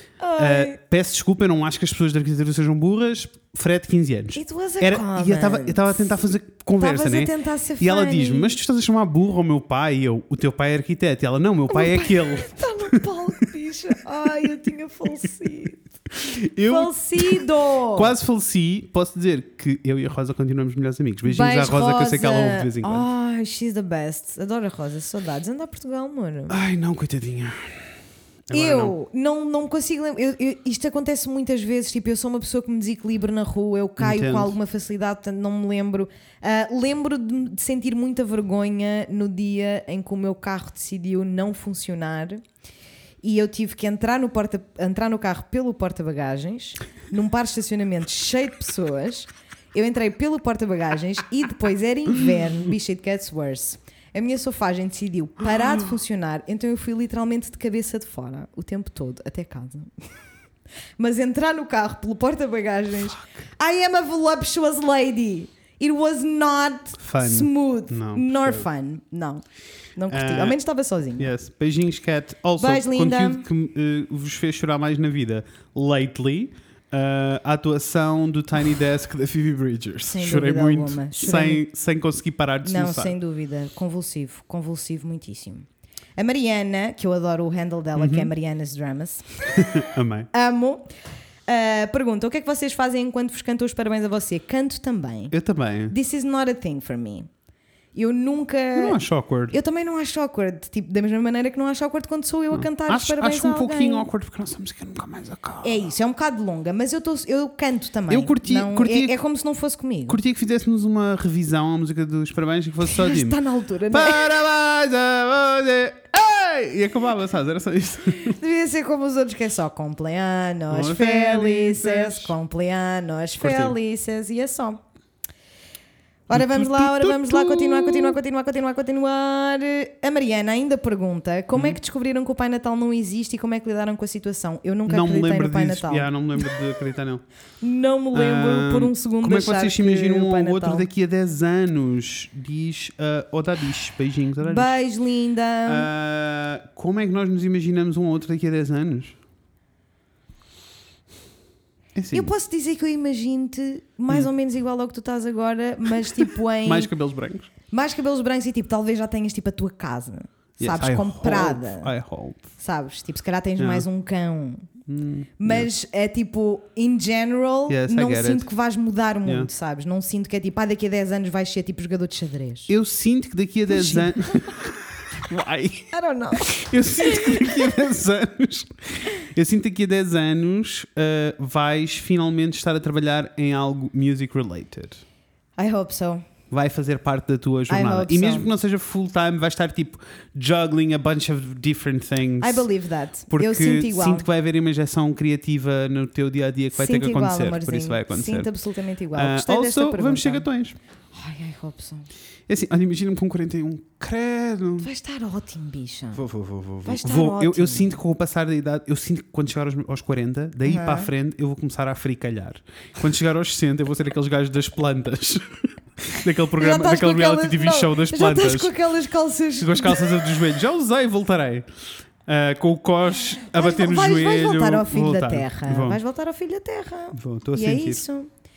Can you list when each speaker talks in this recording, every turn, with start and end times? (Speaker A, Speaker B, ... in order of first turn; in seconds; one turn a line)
Speaker A: 0.2-0.8
Speaker B: 0.4-13.1
Speaker A: 4.4-6.2
Speaker A: 6.8-8.6
Speaker A: 11.7-15.8
Speaker B: 16.1-23.1
Speaker A: 16.6-18.1
Speaker A: 21.3-26.6
Speaker B: 26.5-27.7
Speaker B: 28.5-28.9
Speaker A: 28.5-42.4
Speaker B: 34.0-34.5
Speaker A: 43.2-59.9
Speaker A: 61.0-69.4
Speaker B: 67.0-68.7
Speaker A: 70.0-71.3
Speaker B: 70.1-70.6
Speaker B: 71.2-83.1
Speaker A: 72.6-73.5
Speaker A: 80.1-81.6
Speaker A: 82.6-85.7
Speaker A: 86.2-89.3
Speaker B: 88.0-88.3
Speaker B: 89.5-90.3
Speaker A: 90.3-90.9
Speaker A: 91.5-95.3
Speaker B: 95.3-96.0
Speaker A: 95.9-97.3
Speaker A: 97.9-99.0
Speaker B: 98.7-99.5
Speaker A: 99.5-104.1
Speaker B: 102.5-105.9
Speaker A: 105.6-110.2
Speaker B: 108.1-109.1
Speaker B: 110.1-118.4
Speaker A: 112.8-114.4
Speaker A: 118.2-124.8
Speaker B: 120.7-122.3
Speaker B: 123.4-123.7
Speaker A: 126.3-136.1
Speaker B: 126.3-128.2
Speaker B: 134.9-137.2
Speaker A: 137.6-140.9
Speaker B: 138.1-144.7
Speaker A: 144.4-145.9
Speaker B: 145.7-149.1
Speaker B: 151.9-152.3
Speaker A: 152.1-156.9
Speaker B: 156.1-157.5
Speaker A: 157.7-161.9
Speaker B: 160.6-162.4
Speaker A: 162.6-164.7
Speaker B: 163.6-163.9
Speaker B: 164.9-165.7
Speaker A: 165.4-172.7
Speaker B: 167.7-168.5
Speaker B: 169.2-169.5
Speaker B: 172.7-185.0
Speaker A: 173.7-174.5
Speaker A: 175.9-177.8
Speaker A: 185.6-186.2
Speaker B: 186.5-192.7
Speaker A: 187.7-188.5
Speaker A: 192.4-194.3
Speaker B: 193.3-198.5
Speaker A: 196.7-200.4
Speaker B: 199.1-200.8
Speaker A: 201.1-202.1
Speaker B: 202.5-204.9
Speaker A: 204.8-206.2
Speaker B: 206.1-215.4
Speaker A: 206.8-207.9
Speaker A: 210.6-211.1
Speaker B: 216.0-218.7
Speaker A: 216.6-220.3
Speaker B: 219.6-221.7
Speaker B: 222.3-226.0
Speaker A: 223.5-228.3
Speaker B: 227.1-228.0